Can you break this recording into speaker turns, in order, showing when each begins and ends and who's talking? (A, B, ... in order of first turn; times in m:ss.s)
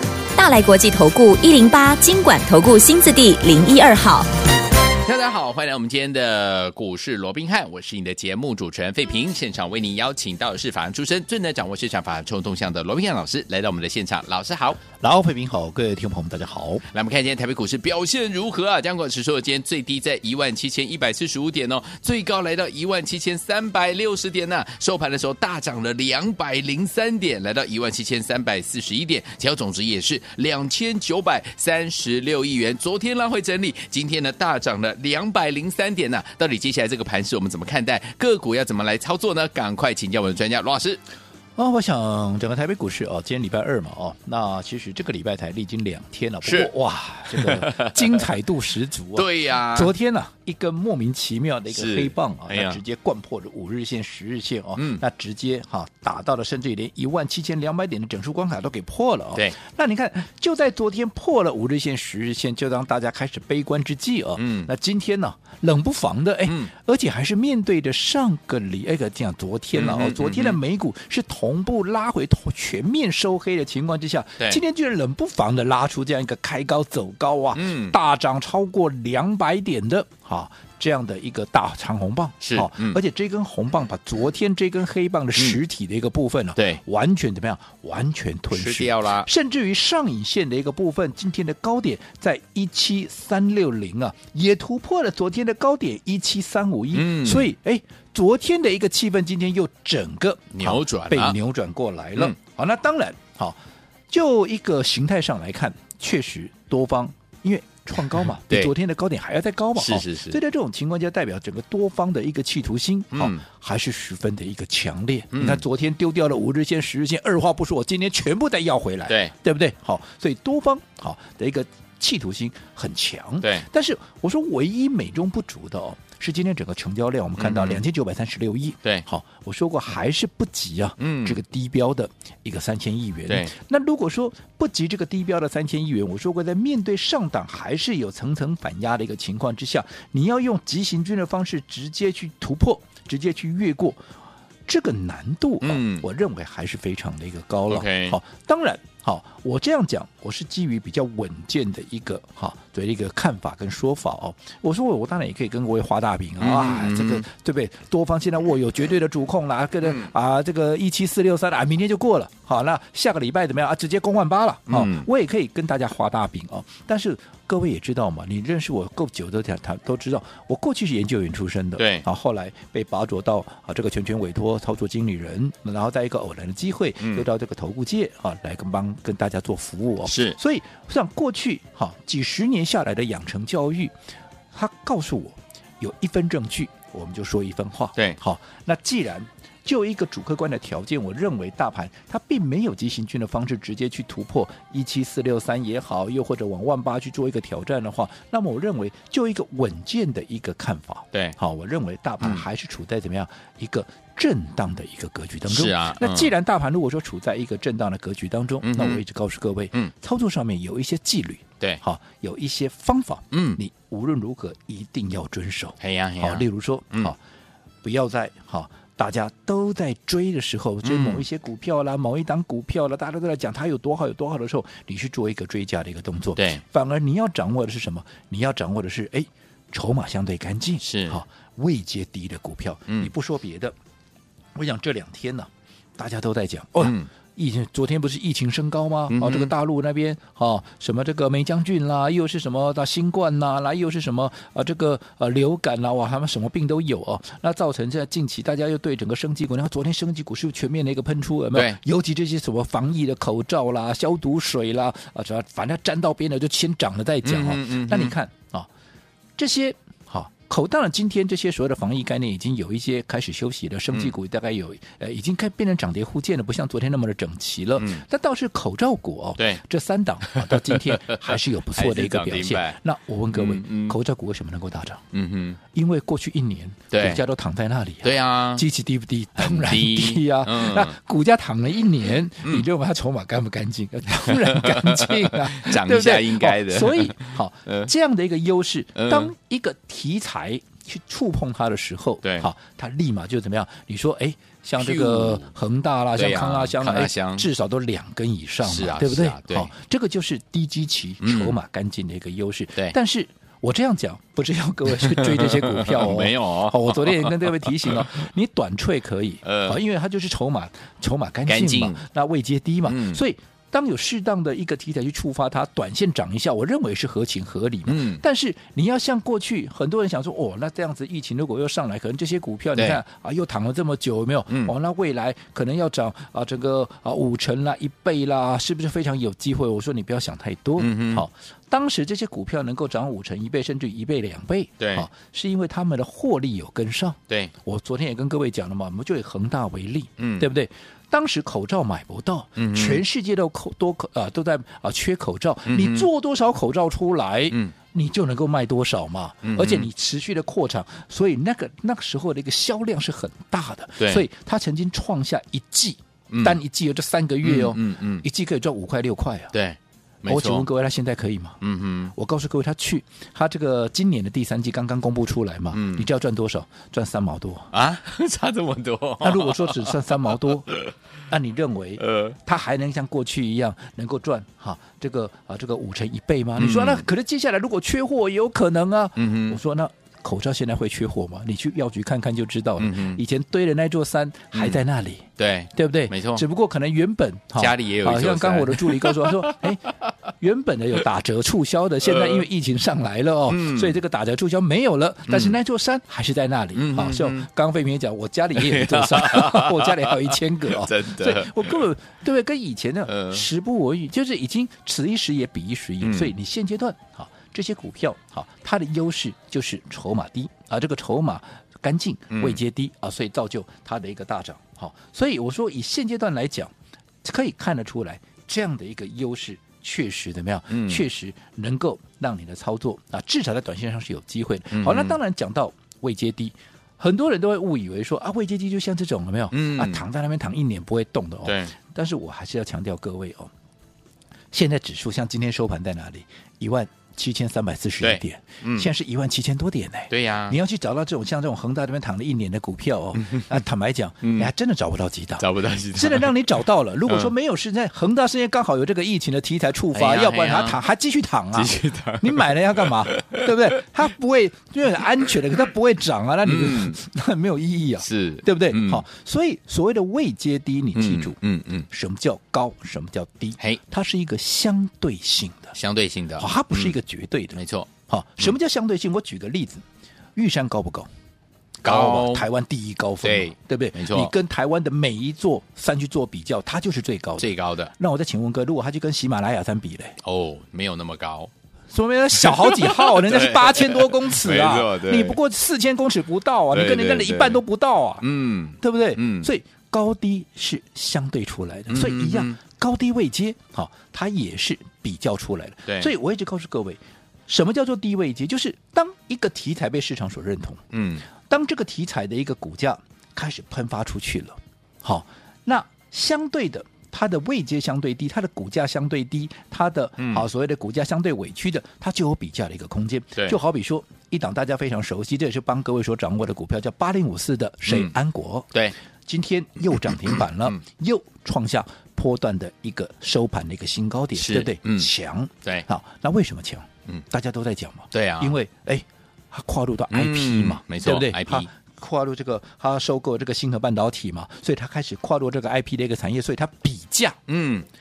0:00.4-0:04.3 A
0:05.0-0:14.8 B
0:15.0-0:16.8 C
0:16.9-0:41.0 B
0:41.6-1:43.6 C
0:46.4-0:46.7 B
0:47.3-0:48.2 B
0:49.1-0:49.9 B
0:51.7-0:52.8 B
0:54.8-0:55.0 B
1:04.4-1:04.7 B
1:09.7-1:10.6 B
1:17.5-1:17.9 B
1:22.4-1:23.0 B
1:28.5-1:29.3 B
1:36.9-1:37.5 B
1:40.5-1:41.4 B
1:44.1-2:24.0 C
1:49.8-1:50.4 B
1:53.1-1:53.4 B
1:55.3-1:55.6 B
1:59.1-1:59.3 B
2:07.4-2:07.8 B
2:11.0-2:11.4 B
2:24.7-3:03.9 C
2:25.6-2:26.0 B
2:27.7-2:28.2 B
2:36.4-2:37.2 B
2:39.8-2:40.1 B
2:44.7-2:45.1 B
2:51.8-2:52.0 B
2:57.0-2:57.3 B
3:00.0-3:00.4 B
3:04.5-3:37.2 C
3:25.5-3:26.3 B
3:28.6-3:29.0 B
3:33.3-3:33.6 B
3:35.8-3:37.1 B
3:37.8-3:53.7 C
3:40.8-3:41.2 B
3:46.4-3:46.6 B
3:50.8-3:51.2 B
3:54.5-4:18.7 C
3:56.8-3:57.1 B
3:59.1-3:59.5 B
4:11.5-4:11.8 B
4:17.2-4:18.1 B
4:19.4-4:35.0 C
4:27.8-4:28.0 B
4:30.3-4:32.8 B
4:33.3-4:34.0 B
4:35.1-4:35.6 B
4:35.7-5:59.5 C
4:36.9-4:37.2 B
4:38.0-4:38.6 B
4:39.4-4:41.0 B
4:44.2-4:47.9 B
4:49.0-4:49.3 B
4:52.2-4:52.5 B
4:54.8-4:55.5 B
4:56.2-4:57.4 B
4:58.6-4:59.7 B
5:01.2-5:01.6 B
5:05.0-5:08.1 B
5:09.4-5:09.8 B
5:11.5-5:12.0 B
5:12.8-5:13.2 B
5:17.9-5:18.2 B
5:22.8-5:23.0 B
5:24.5-5:24.7 B
5:30.8-5:31.2 B
5:34.8-5:35.1 B
5:40.2-5:40.5 B
5:42.6-5:43.0 B
5:45.6-5:46.1 B
5:49.4-5:49.9 B
5:54.0-5:54.2 B
5:56.3-5:56.6 B
5:57.4-5:58.2 B
5:59.5-6:00.7 B
6:00.3-6:01.6 C
6:01.6-6:02.1 B
6:02.1-6:07.7 C
6:05.7-6:06.1 B
6:07.7-6:10.9 B
6:09.2-6:10.7 C
6:11.3-7:13.5 C
6:12.0-6:12.4 B
6:16.6-6:17.0 B
6:19.2-6:19.6 B
6:22.8-6:23.2 B
6:24.5-6:24.8 B
6:25.4-6:26.4 B
6:27.6-6:29.7 B
6:32.1-6:32.4 B
6:33.5-6:34.0 B
6:35.3-6:35.6 B
6:36.7-6:37.5 B
6:38.5-6:41.8 B
6:43.1-6:43.4 B
6:46.0-6:46.3 B
6:52.3-6:52.6 B
7:00.7-7:01.0 B
7:04.7-7:05.2 B
7:09.5-7:10.0 B
7:11.4-7:11.7 B
7:14.5-7:41.4 C
7:18.0-7:18.9 B
7:20.1-7:20.6 B
7:23.2-7:23.4 B
7:24.2-7:24.5 B
7:25.4-7:26.4 B
7:29.9-7:30.8 B
7:31.5-7:33.5 B
7:36.4-7:37.0 B
7:38.0-7:39.0 B
7:40.9-7:41.9 B
7:41.9-7:45.7 C
7:45.7-7:47.0 B
7:46.4-7:49.8 C
7:47.5-7:47.9 B
7:50.4-7:51.1 C
7:51.8-7:52.5 B
7:51.8-8:00.2 C
7:53.2-7:54.3 B
7:57.4-7:57.9 B
8:00.2-8:01.5 B
8:01.9-8:08.2 C
8:02.4-8:05.4 B
8:06.7-8:07.6 B
8:08.2-8:09.5 B
8:08.8-8:20.8 C
8:11.9-8:12.6 B
8:15.8-8:16.1 B
8:20.9-8:21.2 B
8:21.4-8:38.7 C
8:30.2-8:30.4 B
8:37.9-8:38.1 B
8:39.2-8:57.4 C
8:40.0-8:40.7 B
8:44.3-8:45.1 B
8:48.1-8:48.5 B
8:50.1-8:51.7 B
8:57.5-8:57.8 B